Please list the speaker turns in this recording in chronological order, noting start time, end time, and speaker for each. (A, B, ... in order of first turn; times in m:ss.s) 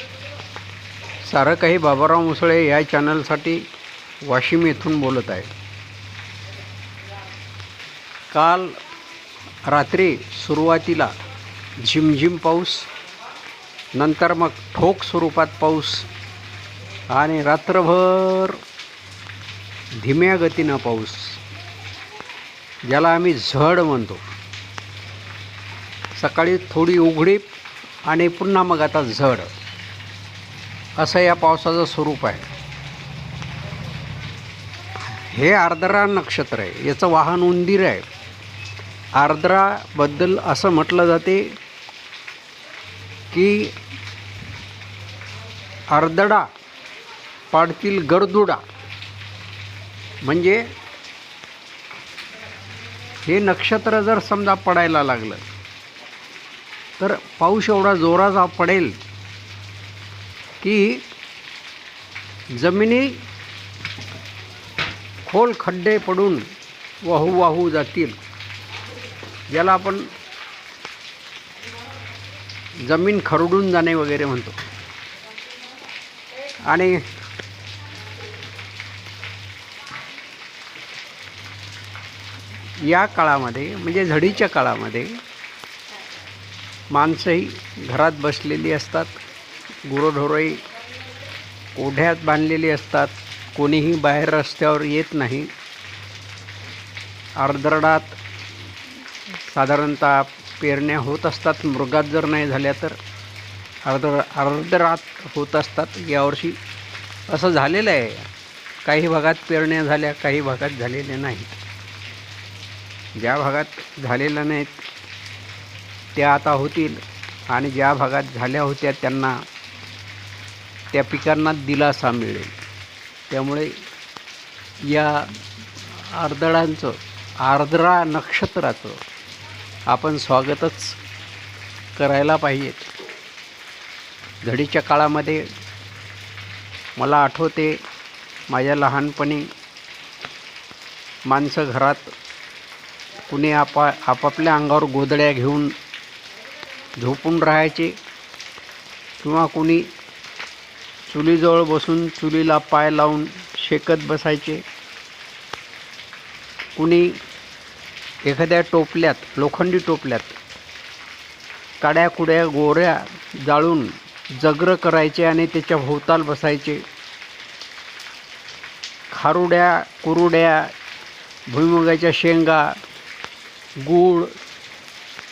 0:01.2-0:03.6 A
0:04.2-0:05.5 A
0:08.3-0:08.7 A
0:09.7-0:11.1 A
0:11.8-0:12.9 A
0:14.0-0:16.1 A
0:17.1-0:18.6 A
0:20.0-0:21.4 A
0:22.9-0:24.2 A
0:26.2-0:27.4 A
0:28.1-0:29.5 A
0:31.0-0:32.5 A
0:35.1-0:38.0 A
0:39.2-0:41.5 A
0:43.3-0:43.7 A
0:45.9-0:46.5 A
0:47.5-0:48.6 A
0:50.2-0:50.6 A
0:53.2-0:55.4 A
0:57.0-0:59.0 A
1:00.6-1:01.0 A
1:02.6-1:03.2 A
1:05.2-1:06.4 A
1:07.0-1:08.2 A
1:09.5-1:10.1 A
1:12.8-1:14.6 A
1:16.6-1:17.0 A
1:22.8-1:25.2 A
1:26.9-1:29.2 A
1:29.8-1:30.6 A
1:31.7-1:35.5 A
1:37.4-1:38.2 A
1:39.4-1:43.0 A
1:43.8-1:46.6 A
1:47.3-1:48.3 A
1:48.8-1:51.6 A
1:53.2-1:54.8 A
1:56.2-1:59.3 A
2:00.9-2:02.5 A
2:03.3-2:03.7 A
2:04.9-2:05.3 A
2:05.9-2:09.0 A
2:09.9-2:11.0 A
2:12.0-2:12.8 A
2:14.4-2:15.4 A
2:17.0-2:17.8 A
2:18.5-2:19.5 A
2:21.3-2:22.1 A
2:23.3-2:25.7 A
2:27.0-2:27.9 A
2:29.2-2:29.9 A
2:31.1-2:34.6 A
2:36.8-2:37.2 A
2:38.2-2:40.4 A
2:41.8-2:46.8 A
2:49.1-2:50.7 A
2:51.5-2:52.8 A
2:53.8-2:54.3 A